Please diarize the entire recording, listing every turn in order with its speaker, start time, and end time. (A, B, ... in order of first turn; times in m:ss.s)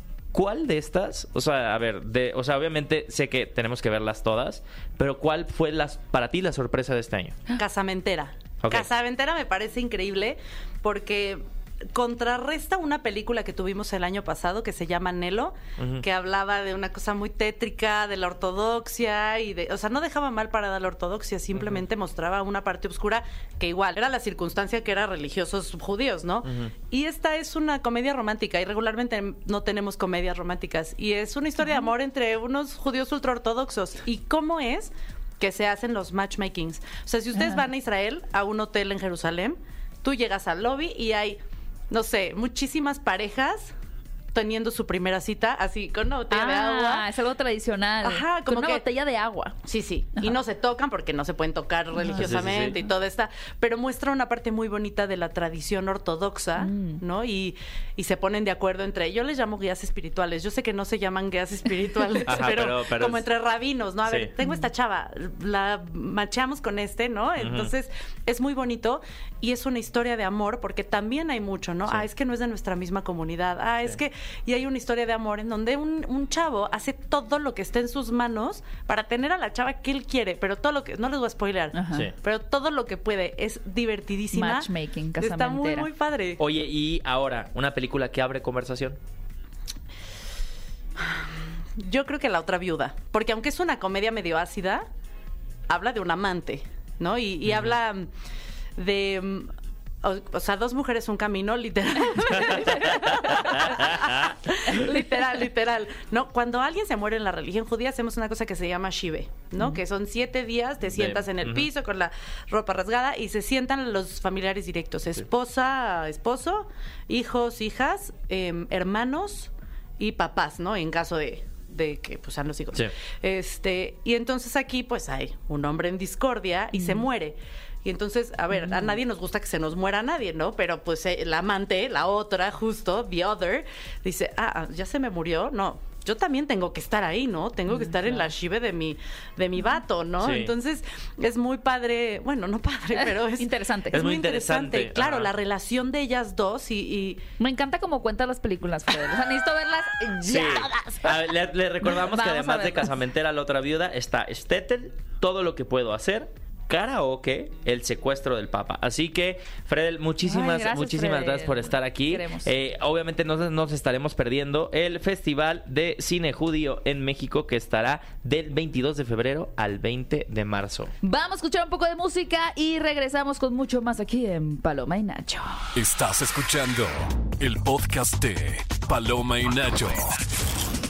0:00.3-0:07.4 A
0:07.5-0:43.7 B
0:08.6-0:08.9 A
0:15.8-0:16.0 A
0:21.6-0:21.8 A
0:31.6-0:31.9 C
0:37.3-0:37.7 C
0:44.3-0:47.1 B
0:46.3-0:49.6 C
0:48.0-0:48.8 B
0:49.6-1:26.4 B
0:51.9-0:52.9 C
0:52.1-0:52.8 A
0:56.6-0:57.0 C
1:02.2-1:03.3 A
1:04.0-1:04.3 A
1:07.4-1:07.7 A
1:21.7-1:22.1 C
1:24.3-1:25.9 C
1:26.4-1:29.0 A
1:31.8-1:34.8 B
1:35.7-1:38.1 B
1:37.5-1:37.7 A
1:38.8-2:27.2 B
1:43.5-1:44.3 A
1:44.7-1:45.0 C
1:50.9-1:51.7 A
2:06.7-2:07.1 C
2:08.5-2:09.0 C
2:17.7-2:18.3 C
2:20.2-2:20.5 A
2:22.9-2:24.0 C
2:23.9-2:25.3 A
2:27.4-2:31.3 C
2:30.2-2:50.9 A
2:31.8-2:33.0 C
2:40.2-2:42.5 C
2:51.0-2:55.6 C
2:55.7-3:00.2 D